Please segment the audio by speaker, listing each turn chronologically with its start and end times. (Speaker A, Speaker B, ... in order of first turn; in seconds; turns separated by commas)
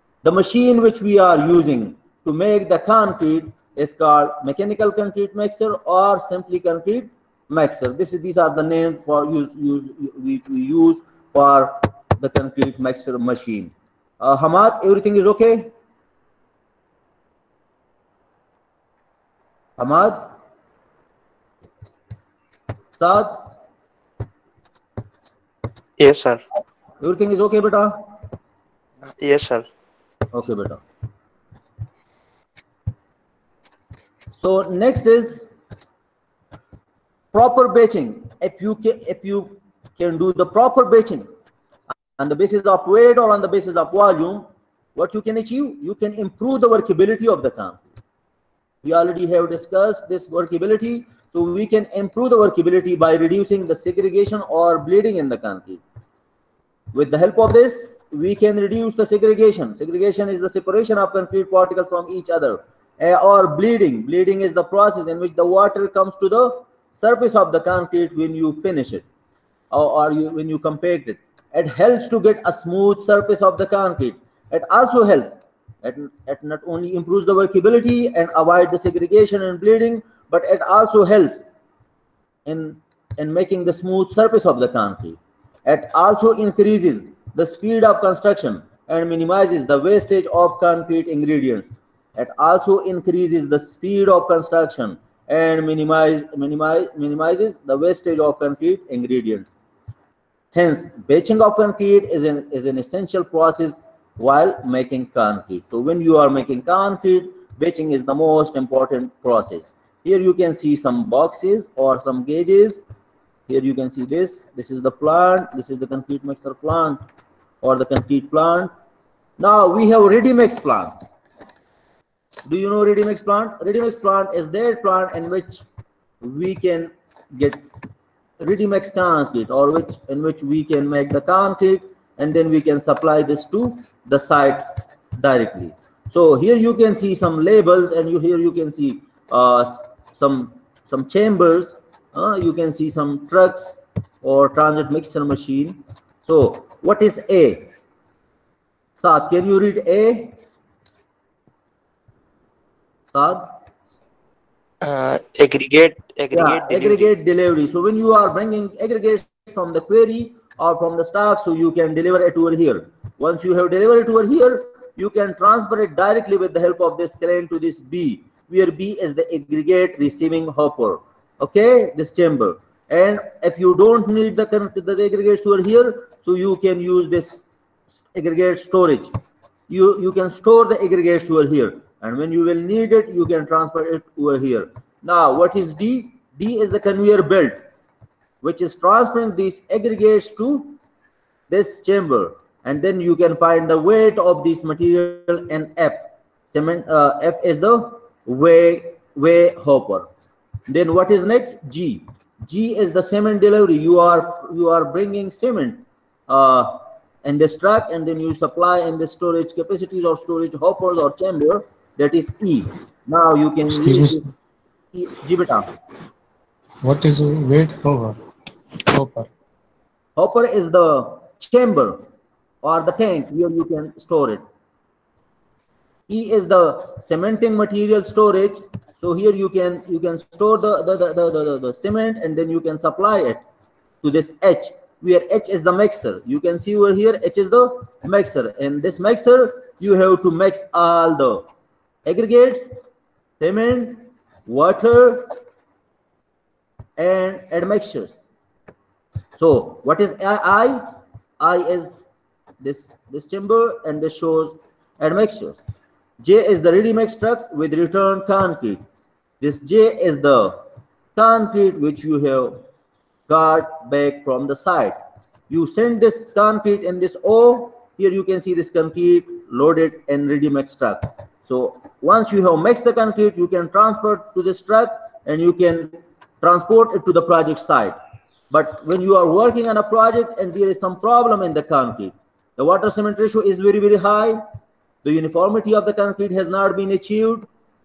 Speaker A: 0.2-15.7, Speaker A: 19.8-20.3, Speaker A: 22.9-23.4, Speaker B: 26.0-26.4, Speaker A: 27.0-28.0, Speaker B: 29.1-29.7, Speaker A: 30.3-30.8, Speaker A: 34.4-35.4, Speaker A: 37.3-41.3, Speaker A: 42.2-47.8, Speaker A: 48.8-55.8, Speaker A: 56.9-69.0, Speaker A: 69.7-81.4, Speaker A: 82.5-99.5, Speaker A: 100.5-112.8, Speaker A: 113.5-117.0, Speaker A: 117.6-118.7, Speaker A: 119.4-120.9, Speaker A: 122.5-125.6, Speaker A: 126.2-127.7, Speaker A: 128.4-147.7, Speaker A: 149.0-150.4, Speaker A: 153.1-153.5, Speaker B: 154.8-157.1, Speaker A: 156.3-177.4, Speaker A: 178.1-179.1, Speaker A: 179.7-187.6, Speaker A: 188.4-190.8, Speaker A: 191.5-200.1, Speaker A: 200.7-214.3, Speaker C: 213.7-214.2, Speaker A: 214.9-215.7, Speaker C: 216.8-218.2, Speaker C: 218.9-219.3, Speaker A: 220.2-222.1, Speaker A: 222.6-224.4, Speaker A: 226.1-233.4, Speaker A: 234.0-241.4, Speaker A: 242.1-242.7, Speaker A: 243.4-245.3, Speaker A: 247.0-248.2, Speaker A: 249.4-250.8, Speaker A: 251.4-252.1, Speaker A: 252.6-255.6, Speaker A: 256.2-258.8, Speaker A: 259.4-260.6, Speaker A: 261.2-262.6, Speaker A: 263.3-264.9, Speaker A: 265.5-278.0, Speaker A: 278.5-284.4, Speaker A: 285.0-287.5